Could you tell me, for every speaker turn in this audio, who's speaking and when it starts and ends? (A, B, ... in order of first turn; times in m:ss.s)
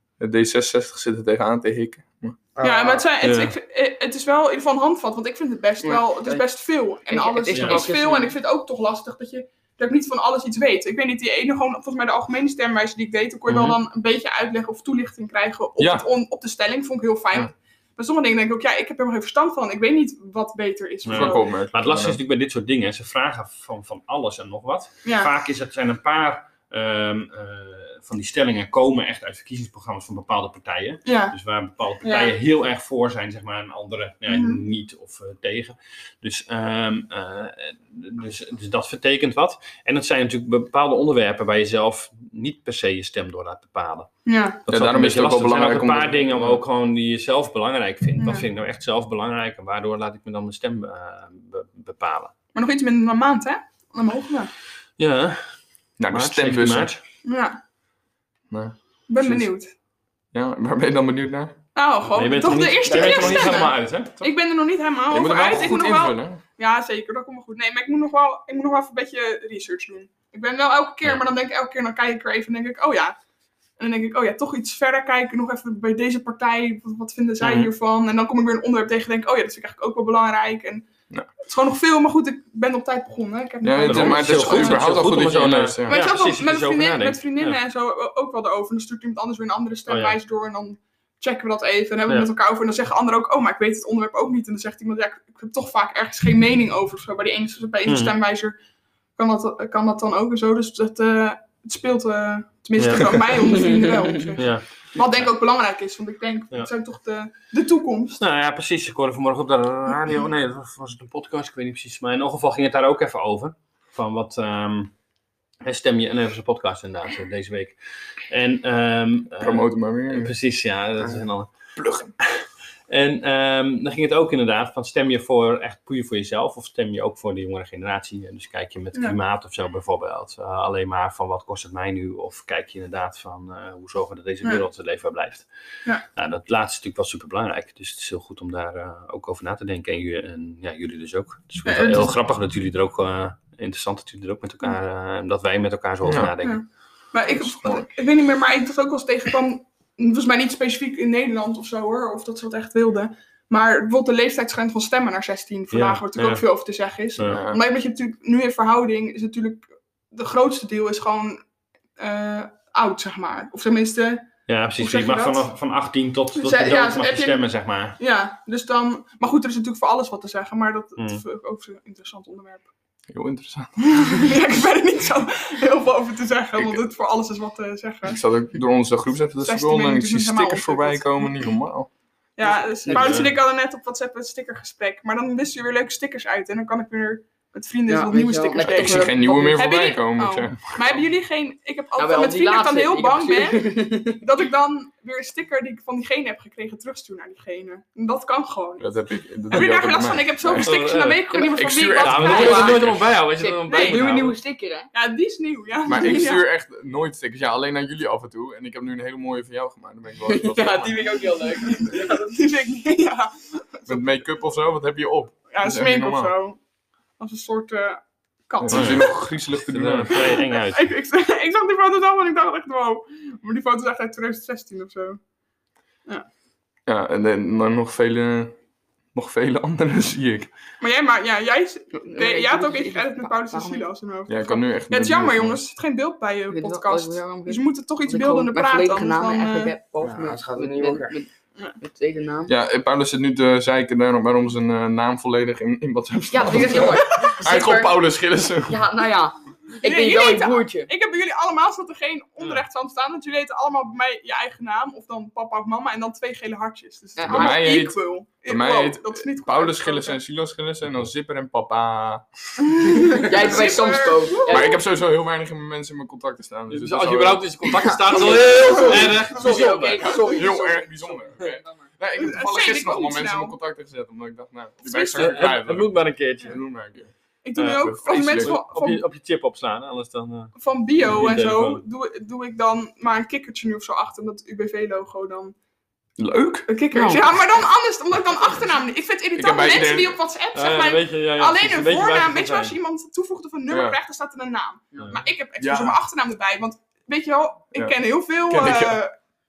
0:00.2-0:02.4 A
0:02.6-0:03.1 B
0:02.6-0:21.5 C
0:03.2-0:03.6 D
0:05.9-0:06.4 E
0:07.1-0:08.4 E
0:07.5-0:07.8 D
0:13.5-0:13.8 D
0:15.8-0:16.0 A
0:21.0-0:44.1 D
0:21.1-0:22.2 A
0:25.0-0:25.3 C
0:31.0-0:31.4 C
0:32.0-0:32.4 C
0:34.3-0:34.6 C
0:44.2-0:44.6 C
0:44.6-0:52.3 D
0:44.7-0:46.6 A
0:48.2-0:48.5 C
0:52.6-0:54.5 C
0:55.0-0:55.4 D
0:56.0-0:57.0 A
0:56.1-0:57.0 D
0:57.2-0:57.6 C
0:58.5-0:58.8 A
0:59.1-0:59.7 C
1:00.3-1:01.6 A
1:01.8-1:13.2 C
1:02.1-1:04.2 D
1:02.9-1:03.2 B
1:05.1-1:06.4 A
1:13.8-1:20.9 C
1:17.4-1:17.7 D
1:21.4-1:25.2 C
1:23.6-1:26.0 A
1:23.8-1:27.6 D
1:25.9-1:38.6 C
1:29.9-1:30.2 D
1:37.8-1:38.2 D
1:39.2-1:48.2 C
1:42.8-1:43.5 D
1:43.4-1:44.2 E
1:44.4-1:45.3 D
1:48.2-1:54.9 D
1:55.6-2:01.5 D
1:59.4-2:00.3 A
2:01.8-2:02.1 A
2:02.2-2:15.5 D
2:16.1-2:26.6 D
2:21.6-2:22.2 C
2:26.0-2:26.3 A
2:26.4-2:41.4 C
2:27.3-2:27.9 A
2:35.7-2:36.4 D
2:37.3-2:37.6 A
2:42.0-2:45.5 C
2:44.5-2:48.0 D
2:46.4-2:52.7 C
2:51.0-2:51.2 D
2:53.1-2:53.9 A
2:53.8-2:58.2 C
2:56.6-2:56.8 A
2:58.0-3:01.9 A
2:59.4-3:01.4 C
3:02.4-3:18.9 C
3:02.5-3:03.3 E
3:02.9-3:03.4 D
3:07.9-3:09.8 E
3:08.6-3:10.8 A
3:12.0-3:14.2 E
3:18.8-3:20.8 A
3:19.5-3:22.9 C
3:20.6-3:21.4 D
3:21.3-3:21.6 E
3:21.6-3:22.8 A
3:22.0-3:24.4 D
3:22.2-3:24.9 E
3:23.7-3:24.1 C
3:24.9-3:26.5 C
3:25.8-3:31.2 A
3:30.2-3:32.5 E
3:31.7-3:34.1 C
3:33.9-3:36.4 A
3:35.5-3:36.6 C
3:37.2-3:39.3 C
3:38.6-3:40.3 A
3:38.7-3:40.9 D
3:40.1-3:45.2 C
3:46.9-3:48.6 A
3:49.1-3:50.5 A
3:50.8-3:59.7 C
3:51.9-3:53.9 E
3:54.3-3:55.7 A
3:56.5-4:02.5 E
4:00.0-4:01.2 B
4:02.5-4:08.9 A
4:06.3-4:10.9 E
4:07.0-4:07.4 C
4:09.8-4:20.2 C
4:17.2-4:17.8 E
4:17.3-4:22.3 A
4:22.7-4:24.8 C
4:23.0-4:23.4 A
4:23.1-4:24.8 E
4:24.5-4:27.5 A
4:26.7-4:30.3 D
4:27.9-4:31.9 E
4:28.6-4:29.1 C
4:29.7-4:37.1 A
4:32.2-4:33.6 C
4:34.9-4:36.6 D
4:37.4-4:39.0 C
4:37.6-4:41.8 D
4:37.8-4:38.6 A
4:40.6-4:45.6 C
4:46.2-4:46.7 A
4:46.7-4:59.2 C
4:46.9-4:47.3 E
4:49.4-4:50.1 A
4:50.6-4:52.8 D
4:53.7-4:54.0 A
4:54.9-4:55.2 E
4:55.0-4:55.2 D
4:55.6-4:56.0 A
4:58.5-4:59.0 A